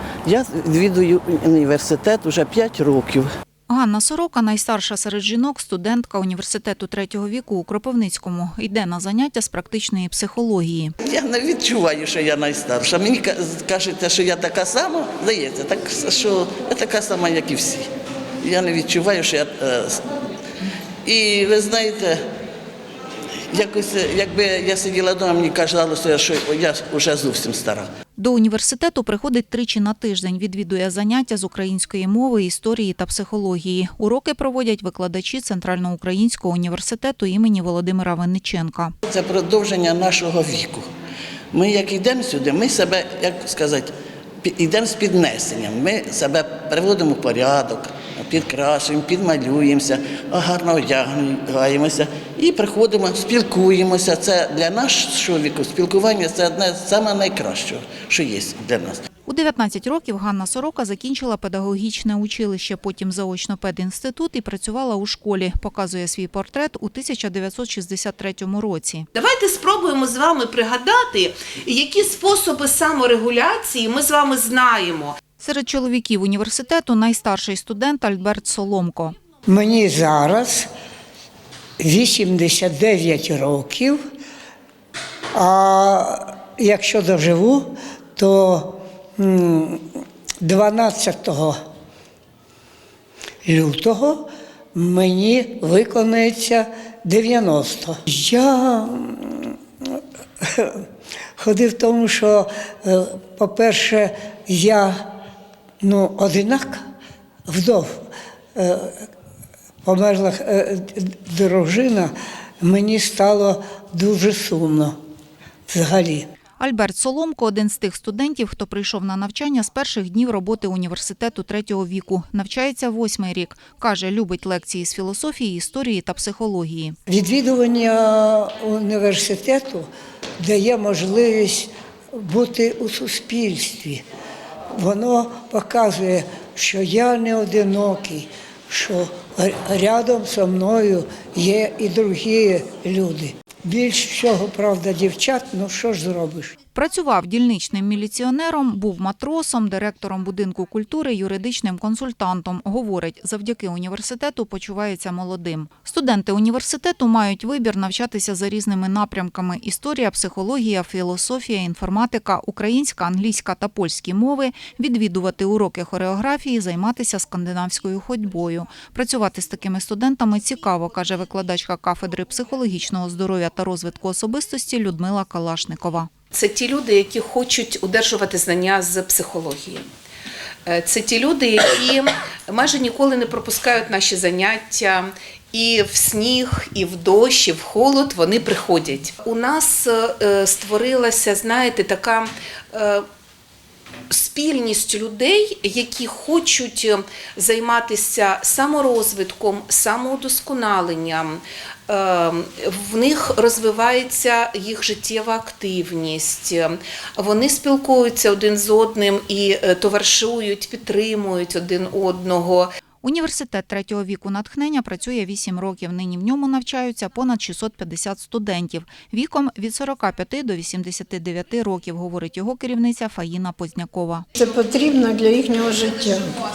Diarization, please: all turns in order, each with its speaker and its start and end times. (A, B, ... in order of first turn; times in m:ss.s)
0:00.2-0:03.3 A
0:03.7-0:10.9 B
0:11.0-0:17.9 A
0:18.4-0:20.0 A
0:21.0-0:22.2 A
0:23.5-0:27.9 A
0:28.2-0:38.9 B
0:39.1-0:40.8 A
0:41.5-0:43.9 A
0:44.4-0:59.0 A
0:59.3-1:09.1 B
1:09.1-1:15.2 C
1:15.4-1:19.2 B
1:19.5-1:20.7 D
1:21.8-1:24.0 D
1:25.3-1:29.9 D
1:30.4-1:31.6 D
1:33.4-1:39.5 D
1:40.4-1:40.8 D
1:41.4-1:45.1 D
1:45.8-1:46.8 D
1:47.5-1:48.0 D
1:48.6-1:49.1 D
1:49.8-1:55.0 D
1:55.7-1:56.3 D
1:56.6-2:07.0 B
2:07.1-2:09.9 D
2:10.4-2:14.0 D
2:14.8-2:26.6 D
2:26.7-2:56.1 B
2:56.3-2:59.9 C
3:00.7-3:13.0 C
3:14.1-3:32.7 C
3:33.0-3:44.3 B
3:44.4-3:46.4 E